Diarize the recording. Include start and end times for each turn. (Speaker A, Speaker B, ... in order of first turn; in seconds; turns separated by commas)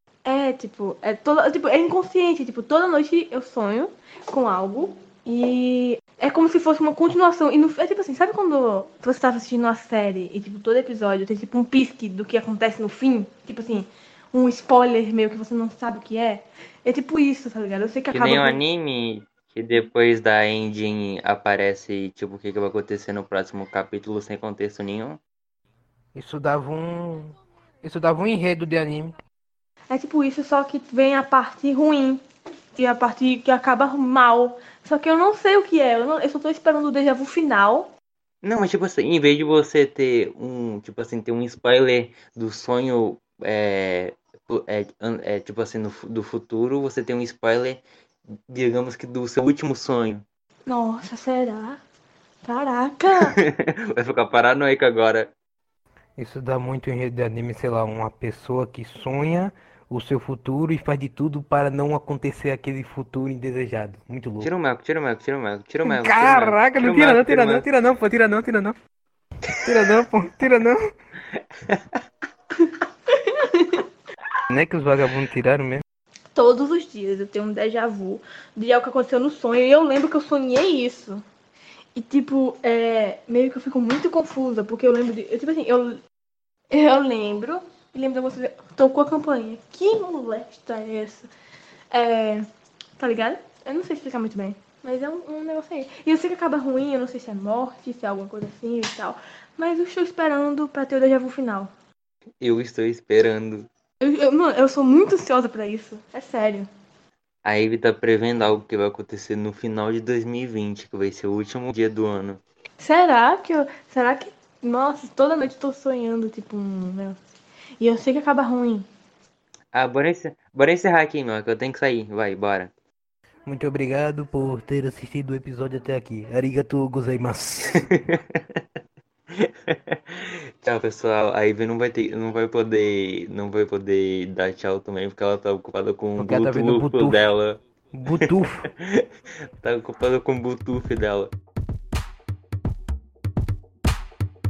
Speaker A: 0.2-18.6, Speaker B: 18.1-25.2, Speaker C: 26.1-29.1, Speaker A: 29.9-32.2, Speaker A: 32.8-37.9, Speaker B: 38.4-47.8, Speaker B: 48.5-50.2, Speaker A: 50.7-51.8, Speaker A: 52.4-53.4, Speaker B: 53.3-55.3, Speaker C: 56.2-64.5, Speaker B: 64.4-67.7, Speaker C: 65.8-68.8, Speaker C: 69.6-70.8, Speaker A: 73.3-73.8, Speaker C: 74.5-75.8, Speaker A: 76.3-81.2, Speaker A: 81.9-86.0, Speaker A: 86.7-91.3, Speaker A: 91.9-92.4, Speaker A: 93.0-101.7, Speaker B: 102.4-103.7, Speaker A: 104.0-106.7, Speaker B: 107.4-112.4, Speaker A: 112.8-117.2, Speaker A: 117.8-118.9, Speaker B: 119.7-122.7, Speaker C: 123.5-127.8, Speaker B: 128.0-128.4, Speaker B: 129.4-137.6, Speaker C: 136.2-137.2, Speaker C: 137.9-138.6, Speaker B: 138.2-139.0, Speaker B: 139.6-141.3